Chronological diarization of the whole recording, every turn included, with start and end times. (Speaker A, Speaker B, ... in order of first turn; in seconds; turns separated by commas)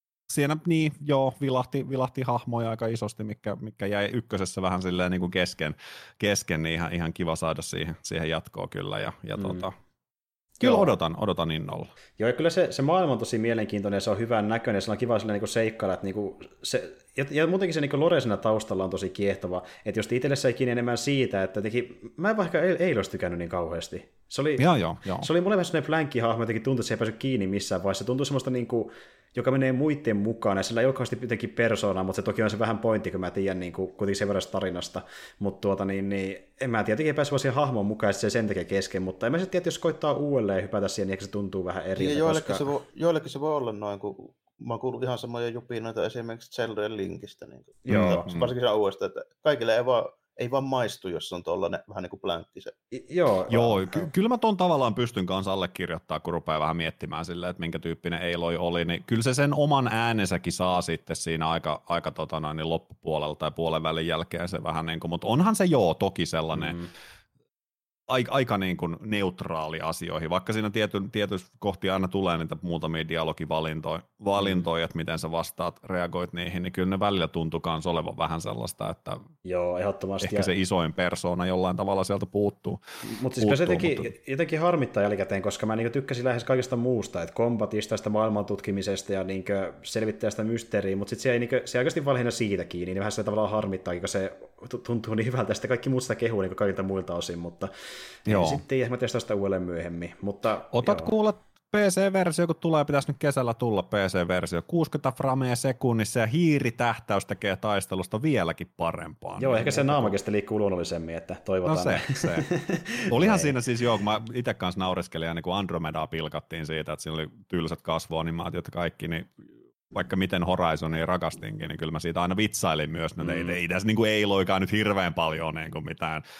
Speaker A: 0.3-9.7, Speaker B: 9.4-9.6, Speaker B: 10.6-10.9, Speaker A: 10.6-11.9, Speaker B: 12.2-42.7, Speaker A: 24.6-25.3, Speaker C: 42.0-52.8, Speaker B: 47.9-48.2, Speaker A: 47.9-48.5, Speaker B: 52.9-54.0, Speaker A: 53.5-66.8, Speaker B: 66.5-66.9, Speaker A: 68.1-79.2, Speaker B: 79.4-80.5, Speaker A: 80.2-82.8, Speaker B: 83.0-97.7, Speaker A: 83.4-84.1, Speaker B: 98.2-101.1, Speaker A: 98.3-98.6, Speaker A: 100.7-110.2, Speaker B: 109.4-113.5, Speaker A: 111.6-112.5, Speaker A: 113.1-119.4, Speaker A: 119.9-126.2, Speaker B: 123.2-123.6